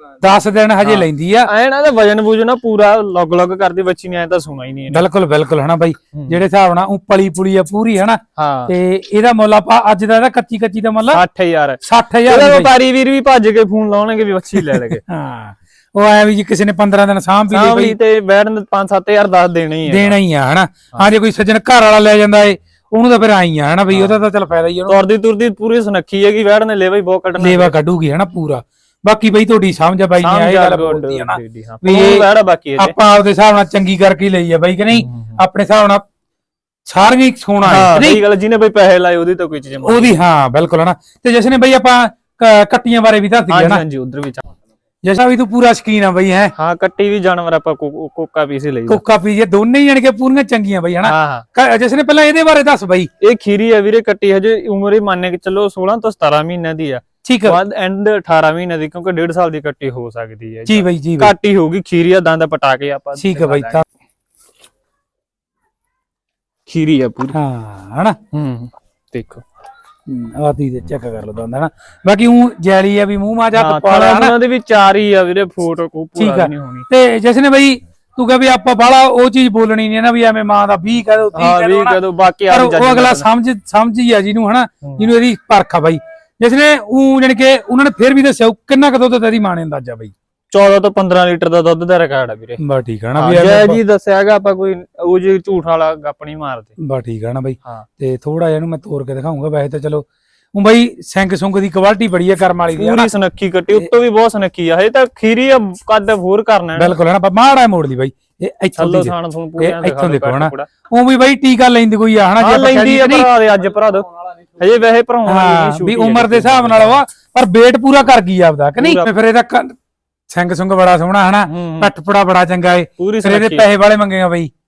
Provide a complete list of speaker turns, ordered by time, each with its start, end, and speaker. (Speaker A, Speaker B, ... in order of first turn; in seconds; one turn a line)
Speaker A: 0.2-1.5
Speaker B: 0.8-5.0
Speaker A: 4.9-11.2
Speaker B: 8.4-8.7
Speaker B: 11.1-15.0
Speaker A: 11.8-12.7
Speaker A: 14.8-18.0
Speaker B: 17.5-20.2
Speaker A: 19.9-25.0
Speaker B: 23.9-24.2
Speaker B: 24.9-27.7
Speaker A: 27.4-32.3
Speaker B: 30.2-33.0
Speaker A: 32.8-36.0
Speaker B: 35.0-35.4
Speaker A: 36.9-38.2
Speaker B: 37.6-40.1
Speaker A: 39.8-43.8
Speaker B: 43.5-44.5
Speaker A: 45.0-46.5
Speaker B: 46.5-49.0
Speaker A: 48.9-53.1
Speaker B: 51.0-51.5
Speaker B: 53.2-63.8
Speaker A: 57.2-57.6
Speaker A: 60.7-61.3
Speaker A: 63.2-63.8
Speaker B: 66.7-67.4
Speaker A: 67.3-68.2
Speaker B: 68.3-69.4
Speaker A: 70.1-74.3
Speaker B: 73.5-76.9
Speaker A: 76.2-90.1
Speaker B: 81.3-83.3
Speaker B: 84.8-85.1
Speaker B: 90.5-92.6
Speaker A: 92.6-93.8
Speaker B: 93.2-96.7
Speaker A: 96.8-103.1
Speaker B: 102.8-107.0
Speaker A: 106.8-113.3
Speaker B: 108.8-110.7
Speaker B: 112.4-114.1
Speaker B: 114.6-117.0
Speaker A: 115.3-119.8
Speaker B: 118.8-119.1
Speaker A: 120.3-124.5
Speaker B: 121.5-121.9
Speaker B: 123.0-123.7